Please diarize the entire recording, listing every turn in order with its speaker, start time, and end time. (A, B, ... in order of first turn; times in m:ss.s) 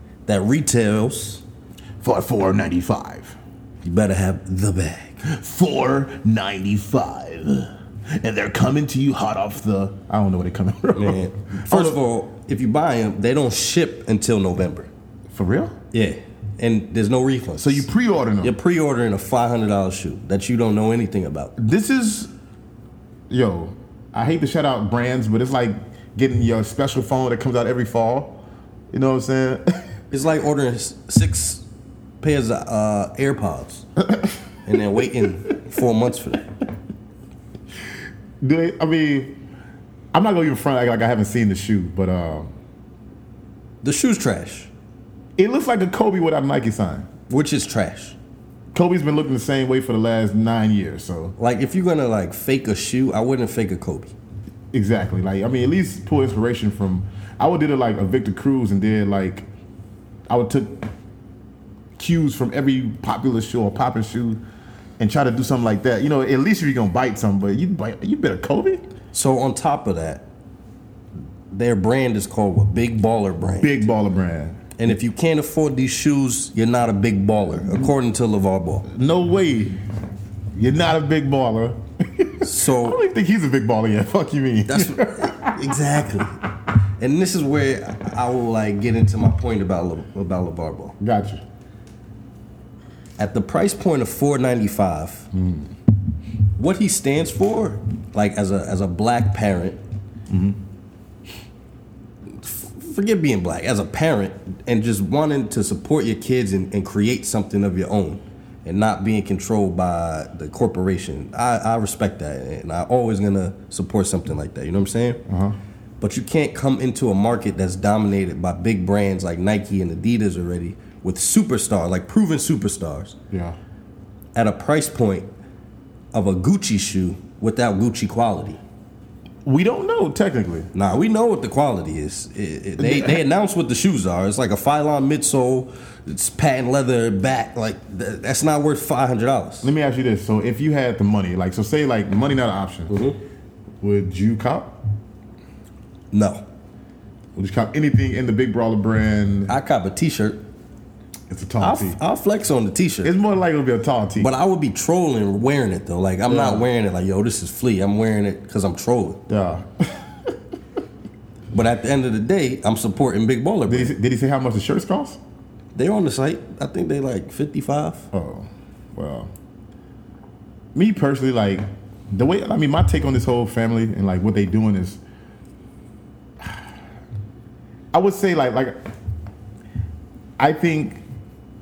0:00.2-0:01.4 A
0:02.0-0:03.4 B
0:03.8-0:05.2 A
0:05.2-0:12.0 B
0:10.9-0:14.9 A
0:15.3-0:15.7 B
0:15.9-0:17.9 A
0:17.6-0:18.5 B
0:18.4-0:21.5 A
0:21.6-0:22.3 B
0:23.3-0:29.8 B
0:30.1-0:31.6 A
0:32.2-0:33.8 A
0:34.1-0:34.3 B
0:34.6-0:36.5 A
0:38.4-0:39.4 B
0:40.1-0:42.5 B
0:43.8-0:44.7 A
0:45.4-0:47.1 B
0:47.3-0:48.2 A
0:48.7-0:51.3 B
0:51.4-0:54.1 A
0:54.7-0:59.4 B
1:00.3-1:00.9 B
1:02.0-1:04.4 B
1:05.0-1:08.8 B
1:09.1-1:10.2 A
1:11.5-1:13.8 A
1:13.6-1:14.6 B
1:14.8-1:18.8 A
1:18.9-1:19.8 B
1:20.5-1:25.6 B
1:22.4-1:23.0 A
1:24.7-1:26.4 A
1:27.0-1:31.0 A
1:31.0-1:31.4 B
1:33.2-1:35.3 A
1:35.3-1:35.7 B
1:36.5-1:39.8 A
1:40.3-1:40.6 B
1:42.3-1:55.2 A
1:55.3-1:55.6 B
1:56.0-2:03.2 A
2:03.3-2:03.6 B
2:04.3-2:05.3 A
2:06.1-2:08.6 A
2:09.4-2:10.7 B
2:10.7-2:19.7 A
2:12.8-2:13.2 B
2:19.6-2:23.0 B
2:22.9-2:23.2 A
2:23.8-2:24.8 B
2:26.1-2:26.4 A
2:27.3-2:29.5 B
2:29.5-2:30.4 A
2:31.3-2:32.0 B
2:31.6-2:33.1 A
2:33.0-2:34.3 B
2:34.2-2:39.2 A
2:36.3-2:36.7 B
2:39.3-2:40.3 B
2:41.5-2:43.9 A
2:43.7-2:45.2 B
2:45.7-2:48.1 A
2:48.1-2:49.3 B
2:50.7-2:55.0 B
2:56.4-2:56.7 B
2:57.9-2:58.8 B
3:00.4-3:01.0 B